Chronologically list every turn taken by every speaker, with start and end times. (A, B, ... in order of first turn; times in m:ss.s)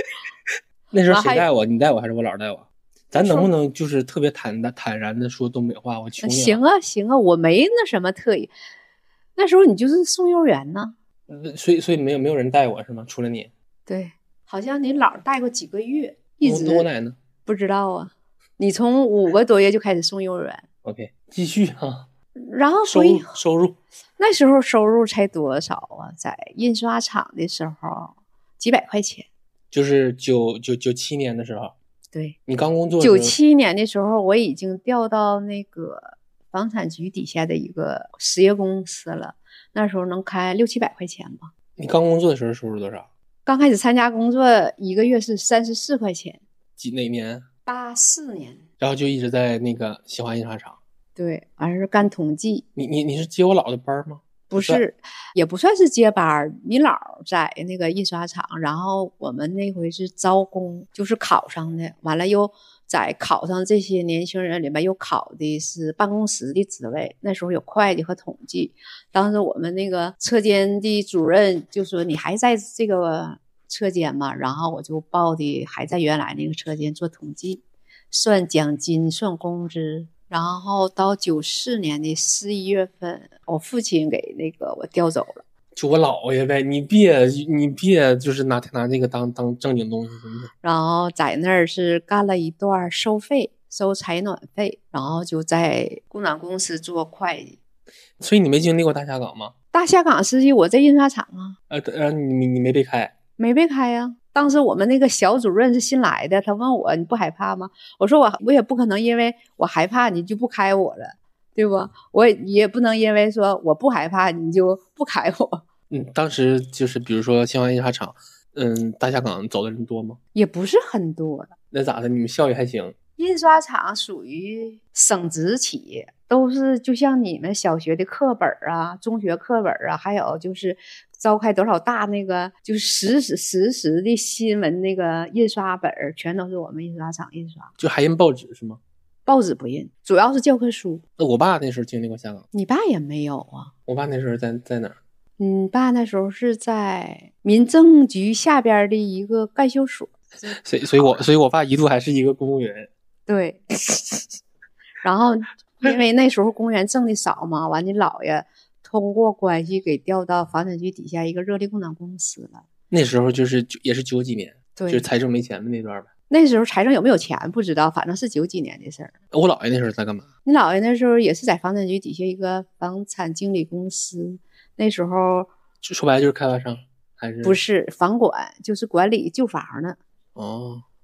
0:00.9-0:06.6 A
0:01.1-0:01.5 B
0:03.2-0:03.5 B
0:06.2-0:08.5 B
0:09.4-0:10.9 B
0:11.3-0:13.5 A
0:13.9-0:16.9 B
0:16.4-0:17.2 A
0:17.5-0:20.7 B
0:20.8-0:22.1 A
0:22.4-0:23.4 B
0:22.9-0:23.8 A
0:24.2-0:29.3 B
0:29.7-0:31.7 A
0:32.5-0:33.4 A
0:33.0-0:41.5 B
0:41.8-0:43.1 A
0:43.5-0:46.4 B
0:46.8-0:47.4 A
0:47.7-0:48.6 B
0:48.8-0:50.8 A
0:51.2-0:52.6 B
0:52.8-0:54.8 A
0:54.5-1:25.4 B
1:25.8-1:30.5 A
1:30.6-1:37.6 B
1:38.2-1:39.5 A
1:39.7-1:41.6 B
1:41.7-1:43.1 A
1:43.4-1:55.6 B
1:55.9-2:00.2 A
2:00.4-2:01.5 B
2:01.7-2:03.0 A
2:03.2-2:17.7 B
2:17.8-2:18.8 A
2:19.3-2:21.0 B
2:21.2-2:22.4 A
2:22.5-2:23.7 B
2:23.9-2:25.0 A
2:25.4-2:31.2 B
2:30.5-2:32.9 A
2:33.3-2:33.7 B
2:35.0-2:42.6 B
2:42.9-2:46.1 A
2:44.8-2:45.1 B
2:46.3-2:49.1 B
2:49.3-2:50.3 A
2:50.4-2:55.5 B
2:55.8-2:57.6 A
2:57.4-3:00.0 B
3:00.4-3:00.8 A